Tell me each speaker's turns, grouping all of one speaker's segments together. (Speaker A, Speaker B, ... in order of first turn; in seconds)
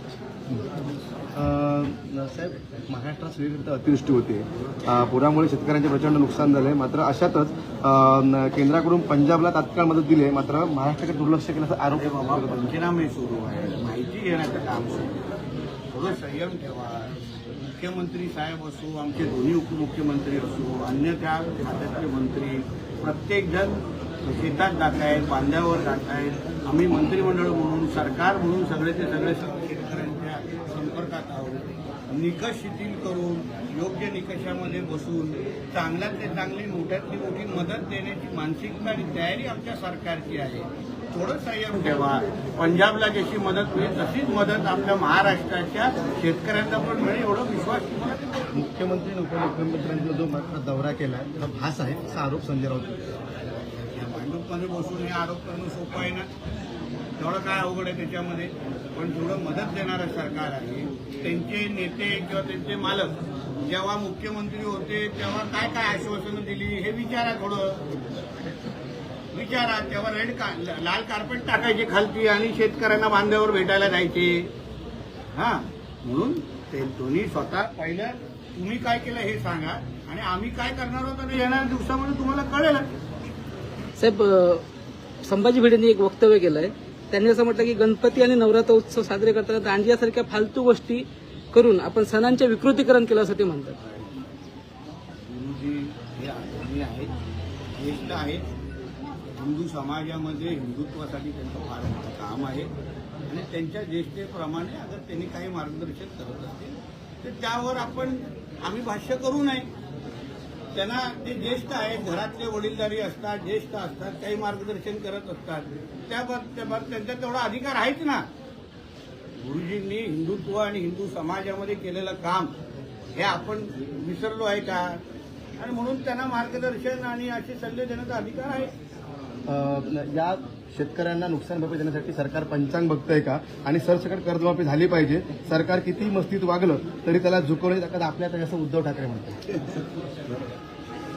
Speaker A: 1.3-12.7, 48.5-53.0, 129.5-139.4
Speaker B: 11.9-15.3, 15.9-48.4, 53.7-56.3, 57.2-67.8, 69.3-74.5, 75.3-82.9, 95.3-97.1, 97.7-98.5, 99.4-102.7, 103.3-109.7, 110.7-118.2, 119.4-122.5, 123.2-125.0, 125.6-128.7, 139.6-140.4
Speaker C: 84.0-84.6, 85.2-93.8